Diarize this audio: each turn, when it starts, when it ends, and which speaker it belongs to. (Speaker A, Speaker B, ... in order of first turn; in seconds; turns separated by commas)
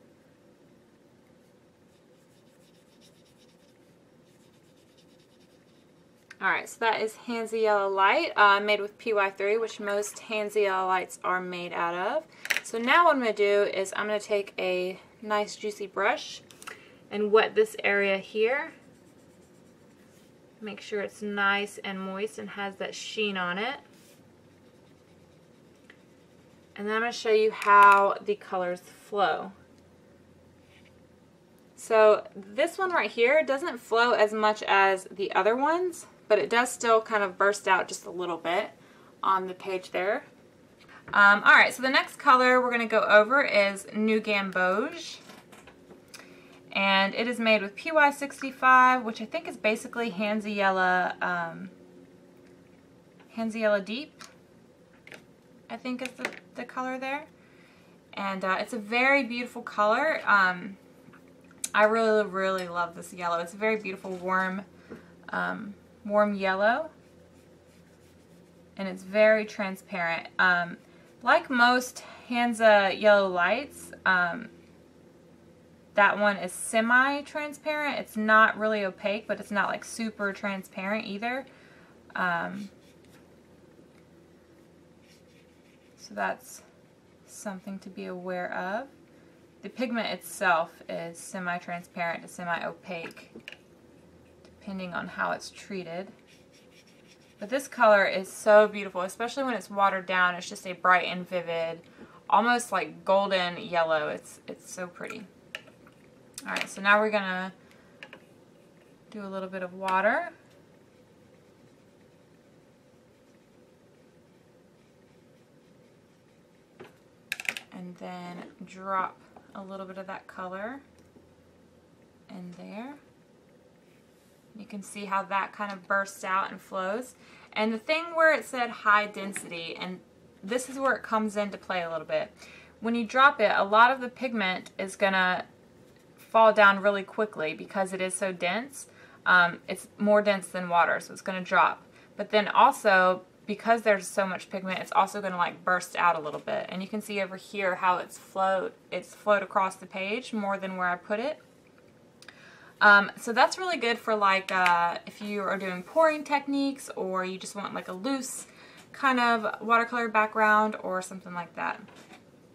Speaker A: 6.4-16.4, Speaker A: 17.1-18.7, Speaker A: 20.6-23.8, Speaker A: 26.8-29.5, Speaker A: 31.8-40.3, Speaker A: 41.1-45.2, Speaker A: 46.7-51.7, Speaker A: 53.3-54.2, Speaker A: 55.7-57.3, Speaker A: 58.1-60.8, Speaker A: 61.7-64.7, Speaker A: 65.3-66.9, Speaker A: 68.8-74.5, Speaker A: 76.0-81.5, Speaker A: 82.2-82.7, Speaker A: 86.0-86.6, Speaker A: 87.3-88.9, Speaker A: 89.6-93.3, Speaker A: 94.6-96.1, Speaker A: 97.4-105.3, Speaker A: 106.5-107.5, Speaker A: 109.1-110.3, Speaker A: 117.7-120.8, Speaker A: 122.3-123.0, Speaker A: 124.5-135.5, Speaker A: 136.2-151.4, Speaker A: 152.8-161.9